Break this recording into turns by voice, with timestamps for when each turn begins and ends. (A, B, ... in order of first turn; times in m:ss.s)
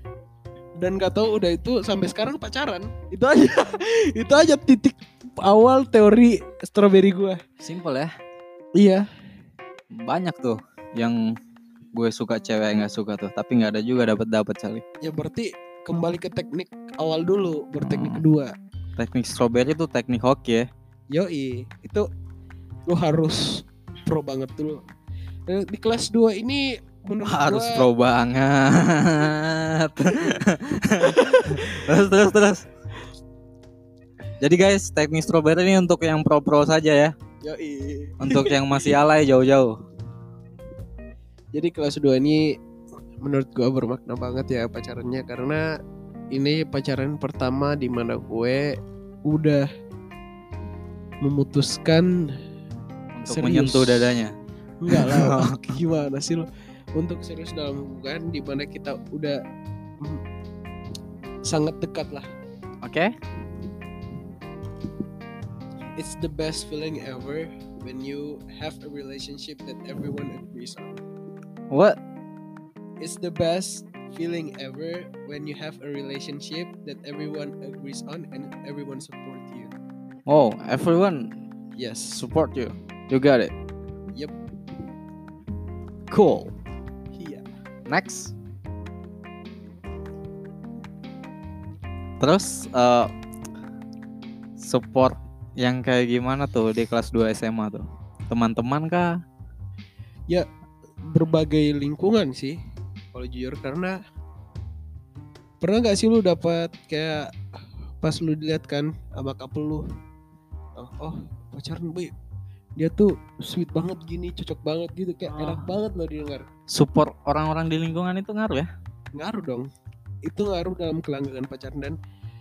0:00.8-0:07.4 A
0:07.6-0:08.1 B
0:08.8-0:09.1 A
0:09.9-0:11.3 B
0:11.9-0:14.8 B
0:15.0-0:18.5 A
0:17.8-0:18.2 B
0:19.0-0:20.7 B
0:21.1-0:22.1 A
0:22.9-0:24.8 A
0:25.5-0:27.9 A
0:27.2-0:32.7 B
0:31.0-0:31.8 A
0:34.4-0:37.1 B
0:37.4-0:38.6 A
0:38.2-0:39.7 B
0:41.5-0:42.5 A
0:43.2-0:45.6 A
0:46.3-0:48.8 A
0:49.3-0:49.7 A
0:51.2-0:52.3 A
0:53.2-0:54.4 B
0:53.3-0:54.1 A
0:54.8-0:59.4 A
0:54.9-0:55.8 B
1:01.5-1:02.2 A
1:02.8-1:03.1 B
1:06.0-1:11.0 A
1:11.7-1:12.0 B
1:13.0-1:19.7 A
1:20.3-1:21.4 B
1:21.8-1:22.2 A
1:22.1-1:23.5 B
1:26.1-1:26.5 B
1:27.2-1:27.4 A
1:27.9-1:28.3 B
1:32.2-1:33.1 B
1:34.6-1:39.2 B
1:41.0-1:42.6 A
1:43.1-1:44.0 A
1:45.6-1:47.3 A
1:48.0-1:49.8 A
1:50.8-1:52.1 A
1:52.8-1:56.5 A
1:55.3-1:55.7 B
1:56.7-1:58.7 B
1:59.2-1:59.7 A
2:00.3-2:02.0 A